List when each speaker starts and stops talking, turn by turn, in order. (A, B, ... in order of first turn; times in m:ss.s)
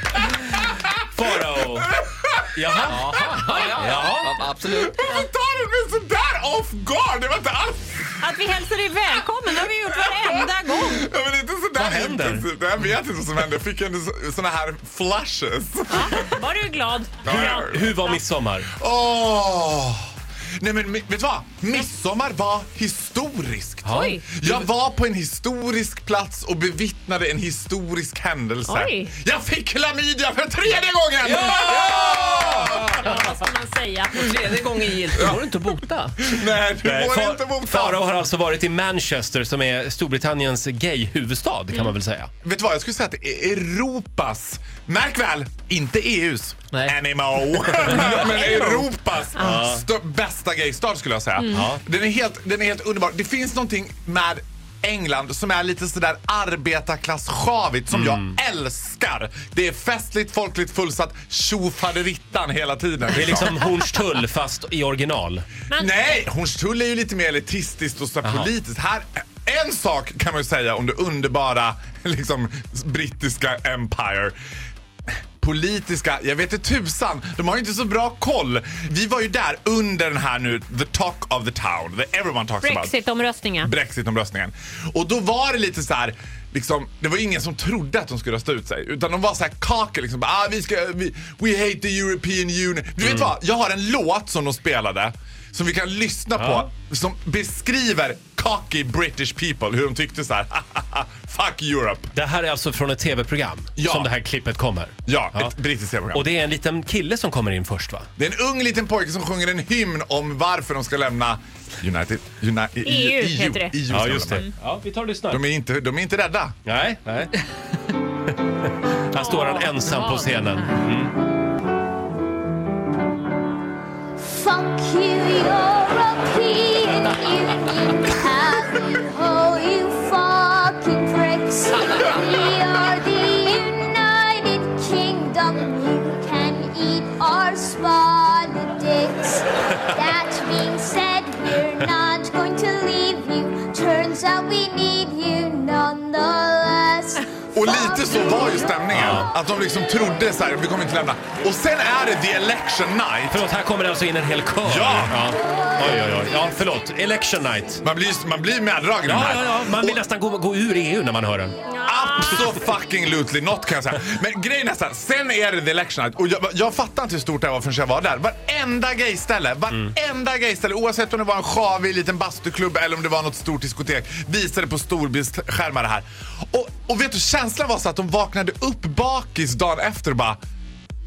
0:01.1-0:01.9 A
0:01.8-0:03.9 B
0:02.5-0:04.5 A
0:03.7-0:04.8 C
0:04.5-0:08.5 B
0:08.2-0:11.1 D
0:09.6-0:16.3 B
0:11.8-0:12.5 A
0:15.9-0:18.2 D
0:17.2-0:18.0 B
0:17.3-0:18.7 A
0:18.7-0:20.0 B
0:20.6-0:33.2 B
0:23.9-0:24.1 A
0:23.9-0:24.2 D
0:28.7-0:29.1 D
0:32.6-0:34.4 D
0:34.5-0:35.8 C
0:35.1-0:35.4 B
0:36.2-0:38.1 B
0:36.8-0:42.3 A
0:42.4-1:03.6 B
0:49.4-0:49.8 A
0:51.4-0:51.6 D
0:51.5-0:51.8 A
0:57.9-0:58.3 A
1:03.1-1:05.4 A
1:05.7-1:14.4 B
1:08.2-1:08.5 A
1:15.4-1:22.9 B
1:22.6-1:23.7 D
1:23.6-1:42.1 B
1:33.0-1:33.3 A
1:36.4-1:36.7 A
1:42.1-1:45.5 A
1:43.8-1:44.1 B
1:45.1-1:46.3 B
1:46.1-1:48.1 A
1:48.2-1:54.4 B
1:52.8-1:53.7 D
1:53.9-1:55.4 A
1:55.3-1:56.6 B
1:56.7-1:57.3 A
1:59.1-2:01.1 A
1:59.2-2:00.4 D
2:04.2-2:28.7 E
2:27.6-2:33.4 B
2:28.9-2:29.3 A
2:33.3-2:37.8 A
2:34.6-2:35.2 B
2:37.8-2:40.0 B
2:39.0-2:41.6 A
2:41.6-2:42.6 D
2:41.8-3:00.4 B